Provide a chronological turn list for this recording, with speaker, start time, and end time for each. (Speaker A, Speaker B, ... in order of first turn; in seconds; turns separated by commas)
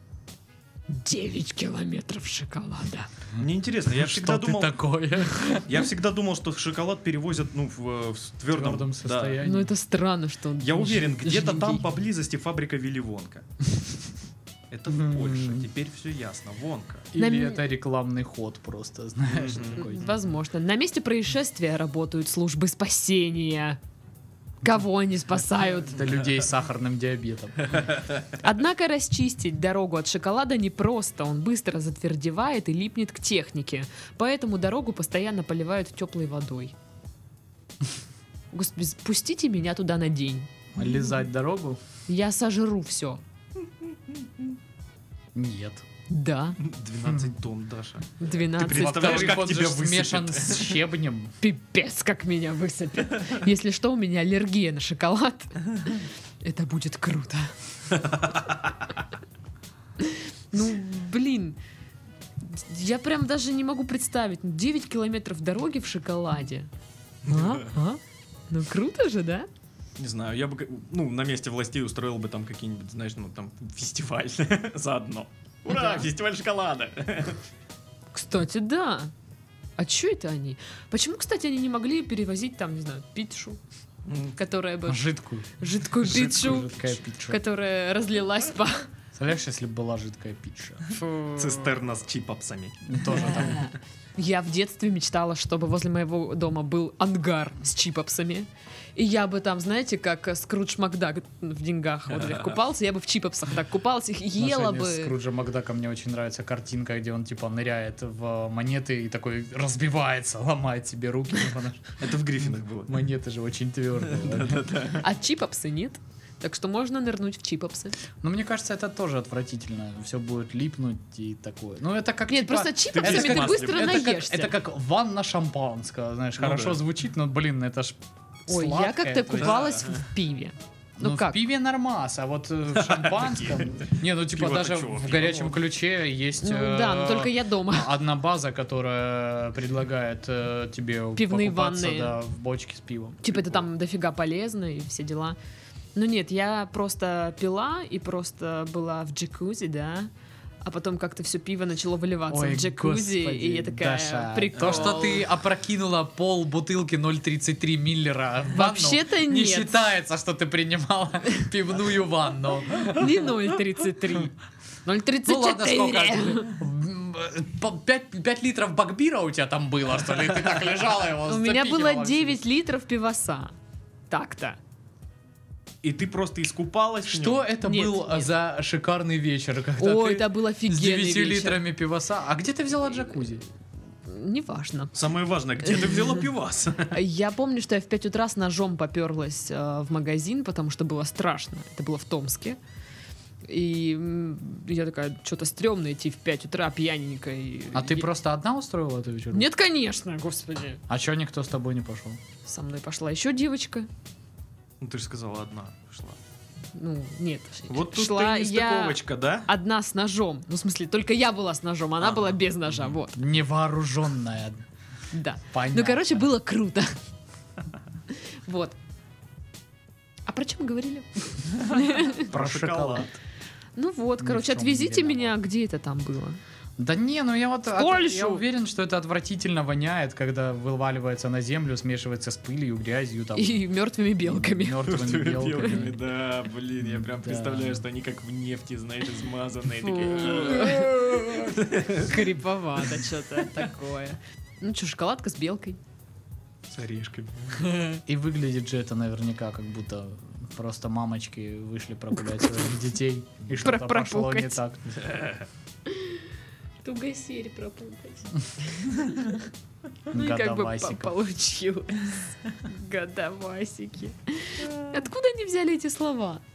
Speaker A: 0.9-3.1, Speaker B: 3.4-4.7, Speaker C: 3.9-5.7, Speaker B: 5.4-9.4, Speaker C: 8.5-9.7, Speaker A: 9.4-11.8, Speaker B: 10.6-13.4, Speaker B: 14.7-17.1, Speaker C: 14.9-15.7, Speaker C: 17.1-20.2, Speaker A: 17.2-17.6, Speaker B: 19.3-19.8, Speaker A: 19.8-23.8, Speaker A: 24.6-26.1, Speaker C: 25.8-28.0, Speaker A: 28.4-36.7, Speaker A: 38.5-40.5, Speaker C: 40.7-41.8, Speaker A: 42.1-43.2, Speaker C: 45.3-45.8, Speaker A: 46.1-46.6, Speaker B: 46.6-50.8, Speaker A: 48.2-49.4, Speaker C: 48.6-51.3, Speaker A: 51.4-57.5, Speaker B: 58.0-58.7, Speaker A: 60.0-61.6, Speaker A: 62.4-66.7, Speaker A: 67.2-69.5, Speaker B: 67.2-67.7, Speaker B: 70.0-77.4, Speaker A: 75.7-76.1, Speaker A: 78.1-79.1, Speaker A: 79.8-83.6, Speaker B: 84.0-84.3, Speaker A: 84.4-88.9, Speaker C: 84.9-85.5, Speaker C: 86.0-87.4, Speaker C: 89.1-90.9, Speaker A: 90.9-91.6, Speaker B: 91.3-93.2, Speaker C: 92.8-93.7, Speaker A: 93.3-105.1, Speaker C: 104.4-111.9, Speaker B: 112.0-113.0, Speaker C: 112.9-114.7, Speaker B: 114.1-115.0, Speaker A: 115.0-118.0, Speaker C: 118.2-129.6, Speaker A: 122.3-124.5, Speaker B: 122.9-124.0, Speaker B: 126.4-126.8, Speaker A: 128.5-131.4, Speaker B: 129.3-130.1, Speaker C: 131.0-143.2, Speaker B: 132.8-135.6, Speaker A: 136.4-137.9, Speaker A: 141.2-142.2, Speaker A: 143.2-145.4, Speaker A: 145.9-150.1, Speaker A: 150.6-155.3, Speaker C: 152.3-163.2, Speaker B: 154.6-155.1, Speaker A: 158.5-159.7, Speaker A: 162.9-164.3, Speaker A: 164.8-166.6, Speaker C: 165.2-172.4, Speaker A: 171.2-173.5, Speaker A: 174.1-174.6, Speaker B: 175.8-177.5, Speaker C: 177.1-183.4, Speaker A: 177.6-178.3, Speaker A: 179.8-181.6, Speaker A: 184.1-184.9, Speaker B: 184.9-187.0, Speaker A: 185.6-186.2, Speaker A: 186.9-192.6, Speaker A: 193.4-198.1, Speaker C: 197.7-199.5, Speaker A: 199.3-200.8, Speaker C: 200.9-202.2, Speaker A: 202.4-203.9, Speaker B: 204.8-206.2, Speaker A: 206.7-213.2, Speaker B: 207.7-209.5, Speaker B: 212.0-213.0, Speaker C: 213.1-214.6, Speaker A: 215.1-216.9, Speaker C: 215.5-216.3, Speaker A: 218.4-218.8, Speaker A: 220.3-222.3, Speaker B: 221.6-223.1, Speaker C: 222.3-223.1, Speaker A: 223.8-226.4, Speaker C: 224.2-225.3, Speaker C: 226.8-233.6, Speaker A: 227.8-228.4, Speaker A: 233.3-234.9, Speaker C: 234.2-236.0, Speaker B: 234.8-242.3, Speaker C: 236.8-237.8, Speaker A: 239.8-241.3, Speaker C: 240.5-241.6, Speaker A: 241.9-245.8, Speaker B: 246.7-247.7, Speaker C: 247.8-255.2, Speaker A: 253.6-254.6, Speaker B: 255.1-255.4, Speaker A: 255.9-256.2, Speaker A: 256.8-259.5, Speaker C: 260.1-261.1, Speaker A: 260.1-266.4